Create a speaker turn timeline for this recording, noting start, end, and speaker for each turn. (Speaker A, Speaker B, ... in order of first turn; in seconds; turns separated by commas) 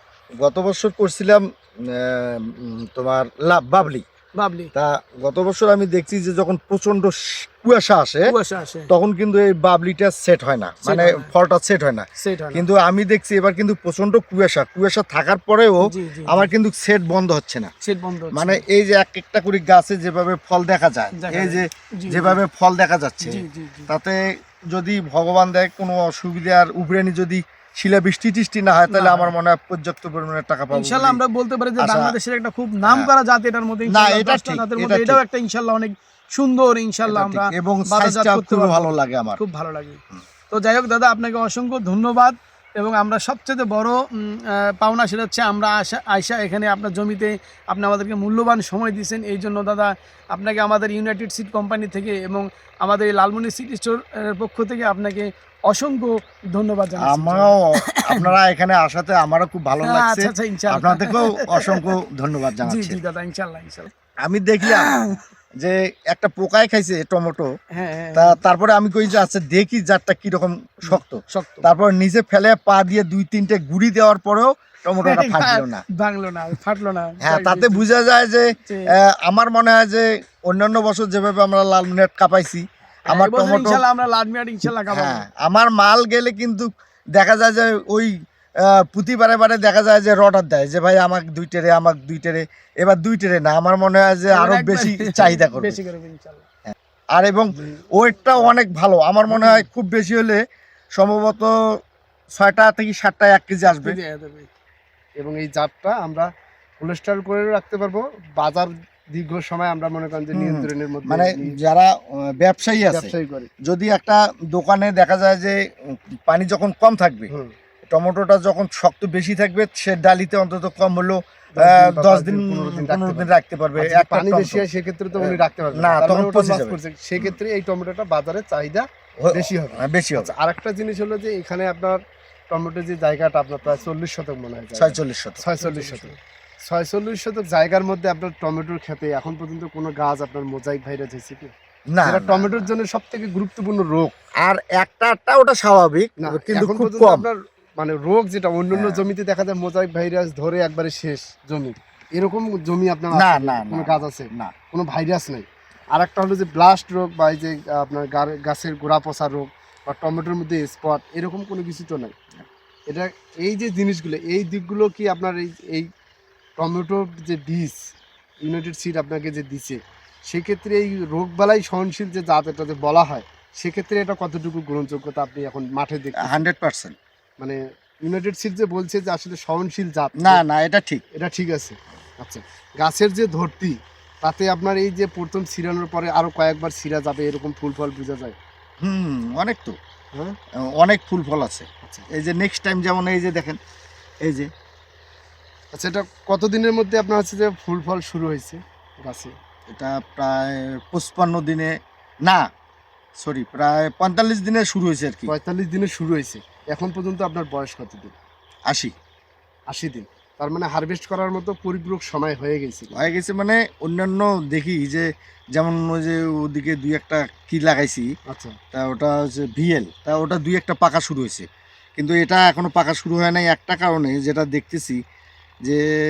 Speaker A: 0.4-4.0, Speaker B: 4.3-4.7, Speaker A: 4.7-8.3, Speaker B: 8.3-8.9, Speaker A: 8.9-17.7, Speaker B: 10.8-11.3, Speaker B: 12.2-12.6, Speaker B: 15.9-16.5, Speaker B: 17.8-18.6, Speaker A: 18.3-24.2, Speaker B: 21.1-22.4, Speaker B: 23.2-23.9, Speaker A: 24.7-31.2, Speaker B: 28.9-29.3, Speaker B: 30.7-40.0, Speaker A: 31.8-32.1, Speaker A: 32.8-33.1, Speaker A: 33.9-35.2, Speaker A: 37.1-39.4, Speaker B: 40.5-58.3, Speaker A: 57.0-63.0, Speaker B: 59.8-61.9, Speaker B: 62.6-63.9, Speaker A: 64.2-64.9, Speaker B: 64.6-65.2, Speaker A: 65.6-67.5, Speaker B: 67.7-68.4, Speaker A: 68.1-75.8, Speaker B: 70.9-71.7, Speaker B: 75.0-77.9, Speaker A: 77.2-83.8, Speaker B: 78.7-78.9, Speaker B: 83.1-85.2, Speaker A: 84.9-95.8, Speaker B: 94.3-96.4, Speaker A: 96.7-100.4, Speaker B: 99.3-99.7, Speaker A: 101.0-101.5, Speaker A: 102.3-104.0, Speaker B: 103.6-104.5, Speaker C: 105.2-106.3, Speaker C: 106.8-111.5, Speaker A: 110.3-113.1, Speaker C: 112.9-113.5, Speaker A: 113.6-117.3, Speaker A: 117.9-124.7, Speaker C: 121.5-132.0, Speaker A: 125.2-127.4, Speaker A: 129.2-130.3, Speaker C: 132.5-136.1, Speaker A: 134.8-135.4, Speaker B: 135.6-136.1, Speaker C: 136.7-141.5, Speaker A: 141.9-142.6, Speaker C: 142.0-144.1, Speaker A: 144.4-147.3, Speaker C: 146.2-162.1, Speaker A: 148.7-149.0, Speaker A: 153.1-154.5, Speaker C: 162.9-165.9, Speaker C: 166.6-167.8, Speaker C: 168.4-169.8, Speaker C: 170.3-176.4, Speaker A: 176.2-176.9, Speaker C: 177.4-180.4, Speaker A: 180.2-181.0, Speaker C: 181.2-188.3, Speaker A: 188.8-189.8, Speaker A: 190.6-193.6, Speaker A: 194.2-194.5, Speaker C: 195.7-199.3, Speaker A: 199.7-201.7, Speaker A: 203.2-205.3, Speaker C: 205.3-208.2, Speaker A: 208.7-208.9, Speaker C: 209.7-213.1, Speaker A: 212.9-218.1, Speaker C: 218.3-218.6, Speaker A: 218.7-221.4, Speaker A: 222.0-225.0